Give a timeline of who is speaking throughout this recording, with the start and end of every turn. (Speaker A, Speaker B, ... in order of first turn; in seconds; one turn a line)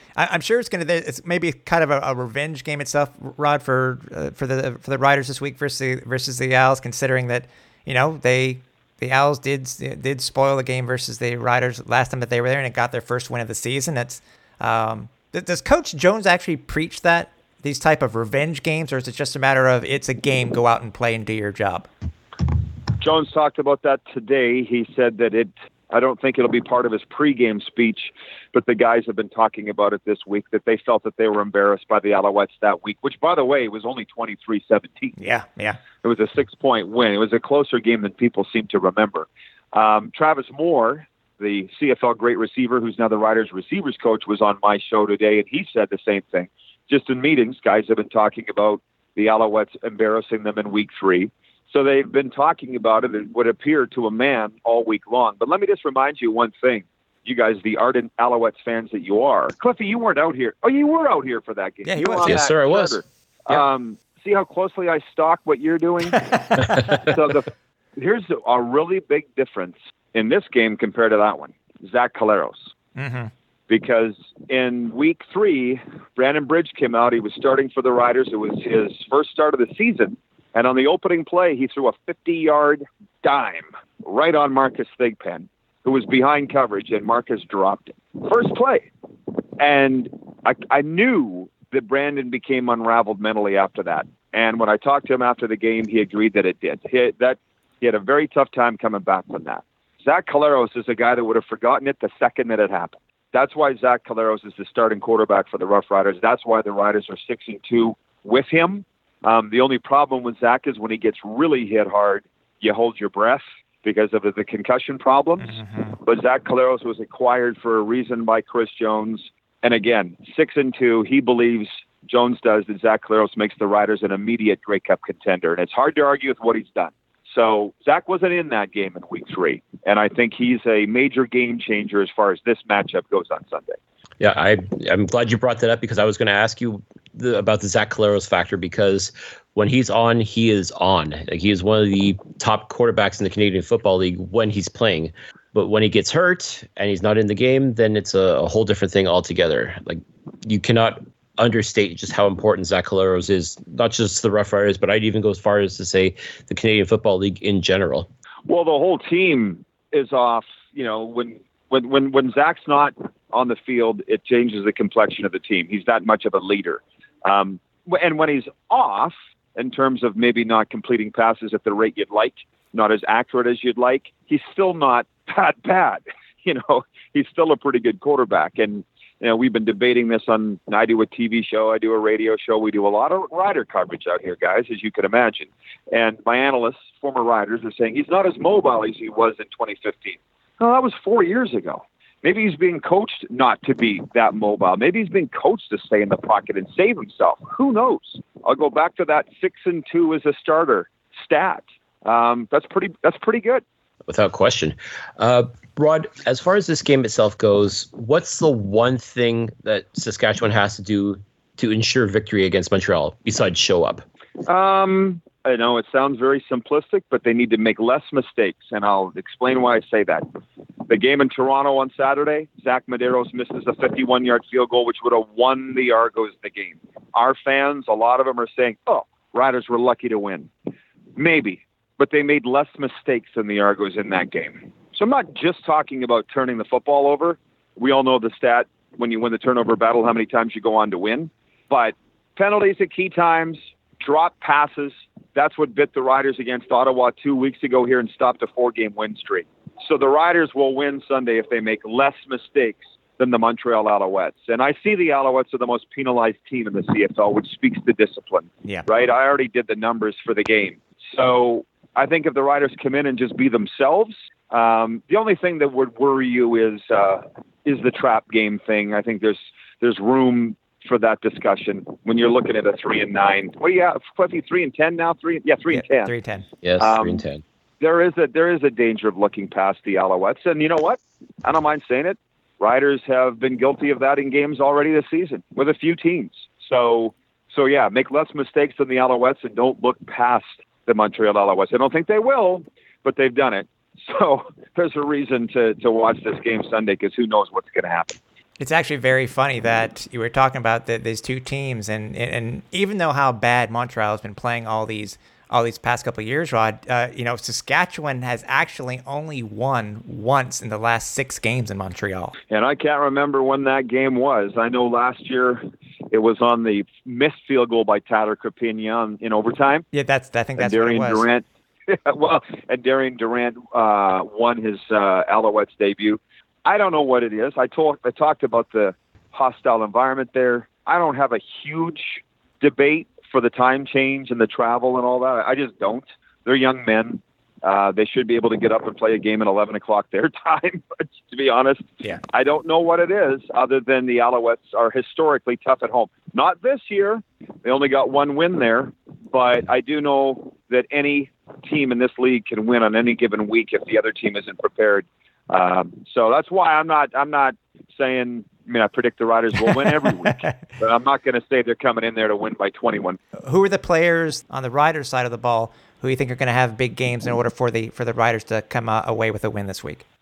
Speaker A: 0.1-21.9
Speaker B: 23.0-35.1
Speaker A: 35.2-35.8
Speaker B: 36.0-72.7
Speaker A: 61.8-62.4
Speaker C: 62.2-63.0
Speaker A: 66.3-67.0
Speaker A: 73.0-73.3
Speaker B: 73.7-88.9
Speaker B: 89.6-133.8
Speaker A: 115.4-116.0
Speaker C: 134.2-158.1
Speaker B: 158.5-203.6
Speaker C: 204.1-214.0
Speaker B: 214.4-220.2
Speaker B: 220.9-230.5
Speaker B: 231.2-276.1
Speaker A: 275.7-276.4
Speaker C: 276.6-277.4
Speaker B: 276.8-277.2
Speaker B: 277.8-298.2
Speaker A: 298.6-312.3
Speaker B: 312.5-319.9
Speaker A: 319.9-321.3
Speaker B: 320.6-363.2
Speaker A: 360.3-360.5
Speaker A: 363.4-370.0